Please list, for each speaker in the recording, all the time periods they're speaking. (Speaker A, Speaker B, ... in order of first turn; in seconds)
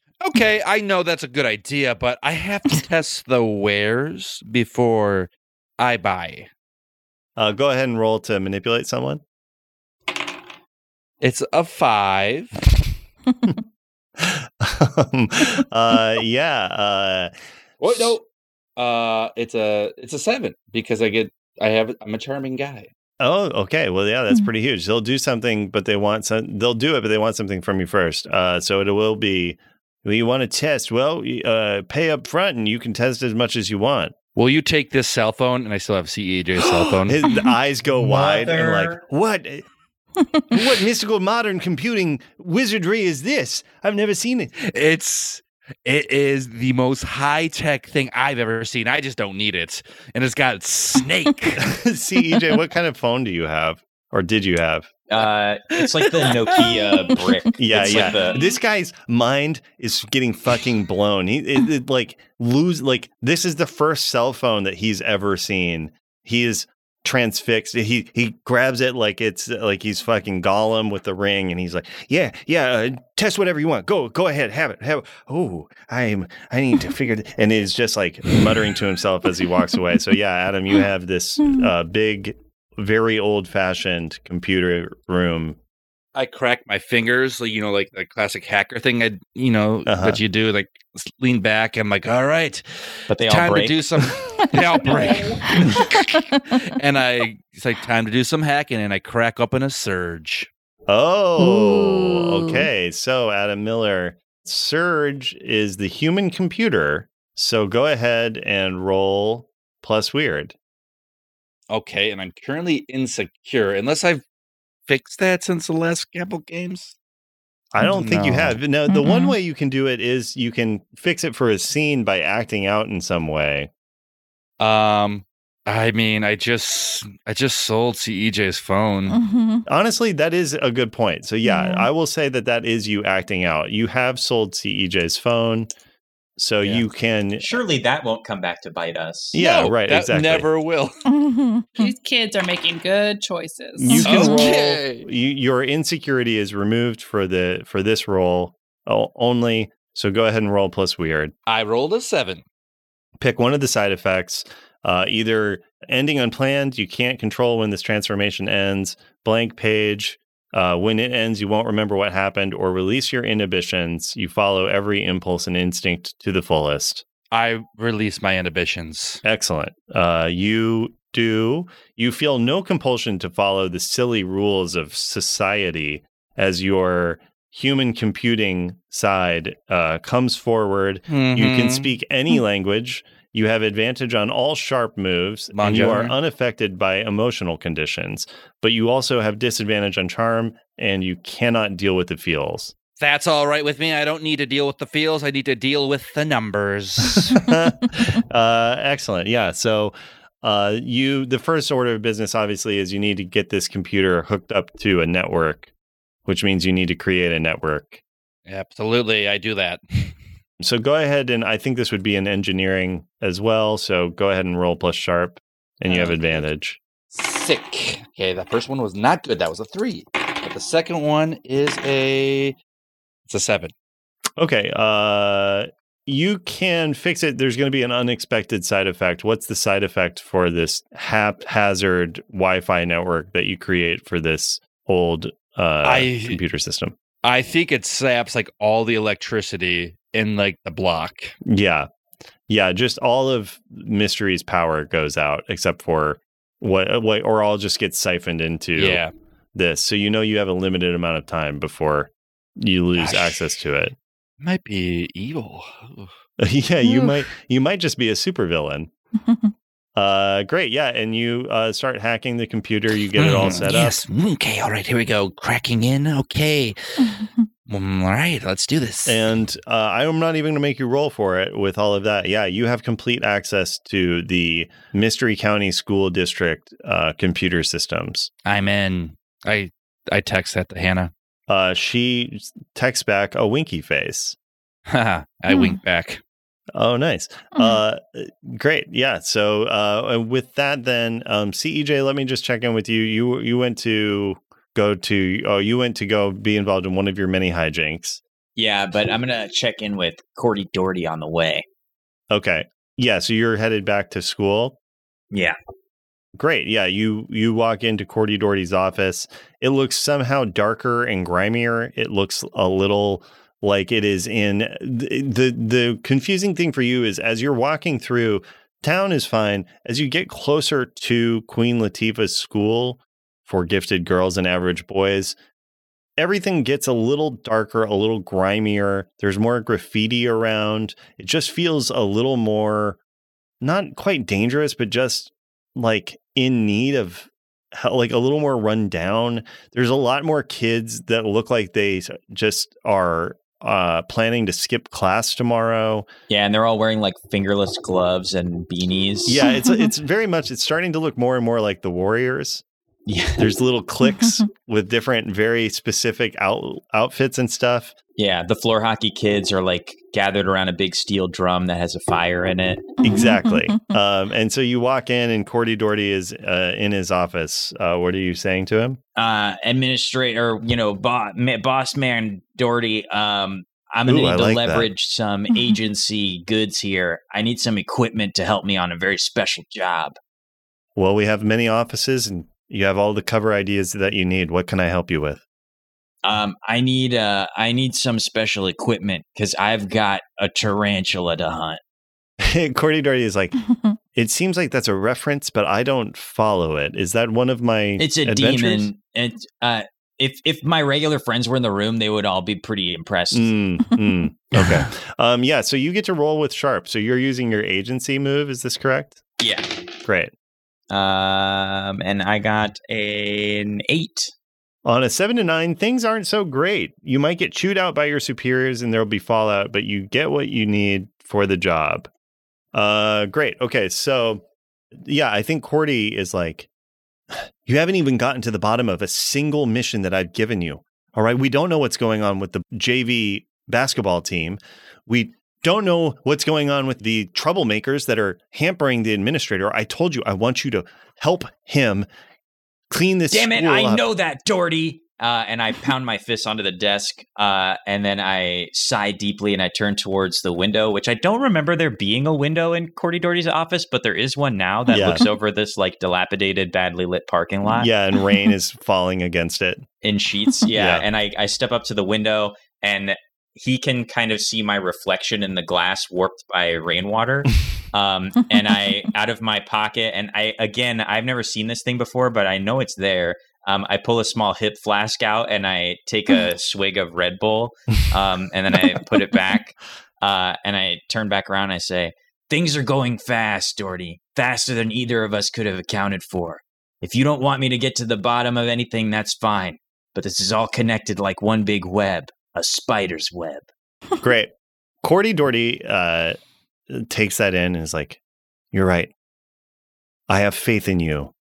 Speaker A: 0.2-6.5, 11.2-12.7, 17.8-18.2, 18.8-22.9, 34.4-37.1, 44.6-51.6, 55.8-57.2, 57.8-58.1, 86.1-92.6, 93.2-100.5, 111.7-114.2, 114.9-116.9, 117.9-118.6, 124.6-129.2, 139.3-141.0, 144.0-145.1, 151.5-152.4, 167.3-169.2, 181.1-181.9, 185.5-186.1, 193.0-197.4, 208.5-210.1, 215.8-216.4, 217.1-222.6, 223.3-223.7, 235.8-236.4, 237.2-241.3, 248.8-249.1, 253.0-253.4, 254.4-256.1, 263.1-269.2, 278.4-281.1, 284.9-286.2
Speaker B: 7.4-9.2, 14.2-17.3, 23.2-34.1, 37.1-39.6, 40.5-44.5, 51.6-54.9, 57.6-85.6, 89.8-90.2, 100.9-110.5, 117.7-123.7, 129.7-135.7, 136.4-137.6, 139.3-140.5, 143.8-151.3, 153.2-167.0, 169.2-192.7, 197.3-205.7, 206.2-208.0, 210.6-216.8, 224.4-236.9, 241.4-241.9, 242.5-249.0, 249.5-253.9, 256.4-258.9, 259.9-264.0, 269.1-278.3, 281.5-284.4, 286.7-298.2, 302.3-304.8, 306.3-325.4, 326.2-333.0, 333.6-346.1, 349.2-352.6, 353.4-357.9, 363.0-369.0, 374.1-374.9, 380.9-385.4, 392.4-393.6, 394.1-398.9, 403.3-409.2, 410.0-410.3, 414.8-422.1, 422.7-424.4, 424.9-426.7, 427.3-442.1, 442.9-444.0, 454.9-455.2, 457.6-459.8, 460.7-461.0, 494.2-494.5, 495.0-496.4, 496.9-498.2, 498.7-499.1, 500.3-501.3
Speaker C: 36.6-36.9, 38.0-39.0, 55.1-58.4, 93.1-93.8, 137.4-139.4, 298.6-301.6, 346.3-349.5, 353.1-353.5, 358.2-363.0, 369.1-380.2, 386.2-391.8, 398.0-403.5, 409.4-409.7, 410.9-414.3, 443.3-457.9, 460.0-493.7
Speaker D: 37.2-37.5, 81.4-81.7, 95.7-96.4, 101.4-102.7, 118.9-119.3, 129.1-129.7, 131.4-131.9, 141.1-141.9, 143.9-144.5, 256.8-257.1, 259.2-259.5, 285.5-285.8, 287.5-287.8, 349.6-349.9, 354.0-354.3, 363.0-363.9
Speaker E: 94.9-95.3, 141.8-144.0